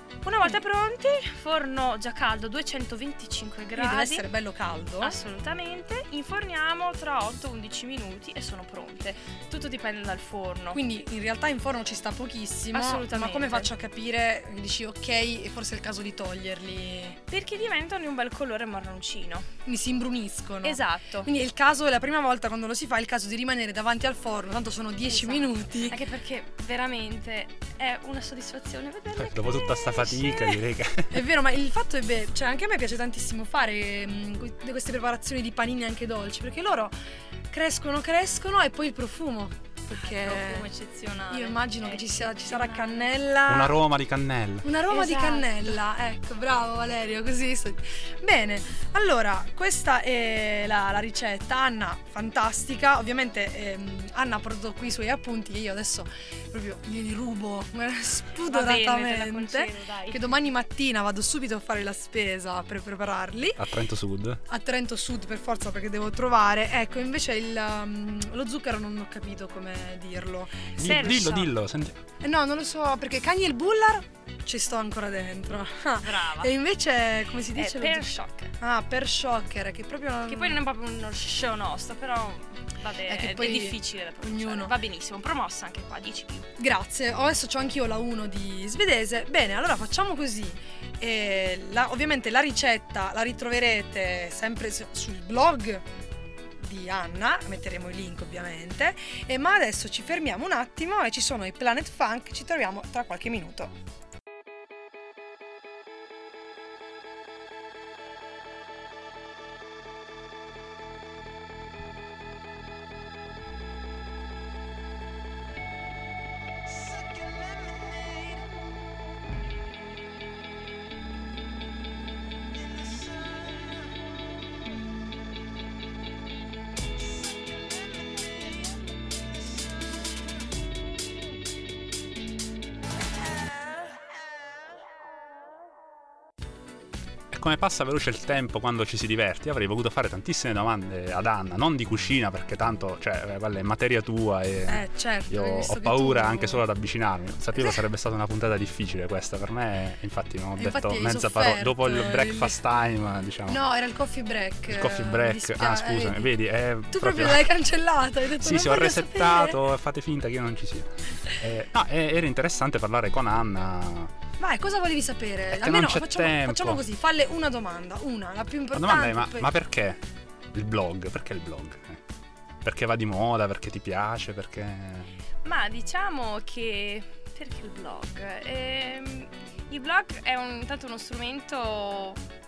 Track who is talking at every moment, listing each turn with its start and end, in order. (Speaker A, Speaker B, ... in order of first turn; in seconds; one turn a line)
Speaker A: 0.2-4.2
Speaker B: 3.7-5.2
Speaker A: 5.0-10.8
Speaker B: 10.7-17.2
Speaker A: 12.7-13.7
Speaker A: 17.3-19.5
Speaker B: 19.6-26.0
Speaker A: 20.6-21.3
Speaker A: 25.1-30.6
Speaker C: 29.2-31.2
Speaker B: 31.1-36.9
Speaker B: 37.5-40.7
Speaker A: 40.0-43.1
Speaker B: 41.3-43.8
Speaker C: 43.5-44.7
Speaker B: 44.6-63.6
Speaker A: 44.9-45.8
Speaker A: 58.5-60.3
Speaker C: 63.6-64.4
Speaker B: 64.5-71.3
Speaker C: 70.8-72.0
Speaker A: 70.8-71.5
Speaker B: 72.2-80.6
Speaker A: 76.0-76.5
Speaker A: 77.5-78.5
Speaker A: 80.3-86.5
Speaker B: 83.1-84.7
Speaker B: 86.6-95.8
Speaker B: 96.6-103.7
Speaker C: 137.3-153.6
Speaker B: 144.7-146.6
Speaker B: 147.6-147.8
Speaker B: 150.6-152.6
Speaker B: 153.5-156.3
Speaker C: 154.7-157.4
Speaker B: 156.9-159.6
Speaker C: 158.4-164.1
Speaker B: 164.4-169.5
Speaker C: 165.5-166.8
Speaker C: 168.7-170.0
Speaker C: 170.5-172.0
Speaker C: 172.6-175.1
Speaker A: 175.4-182.2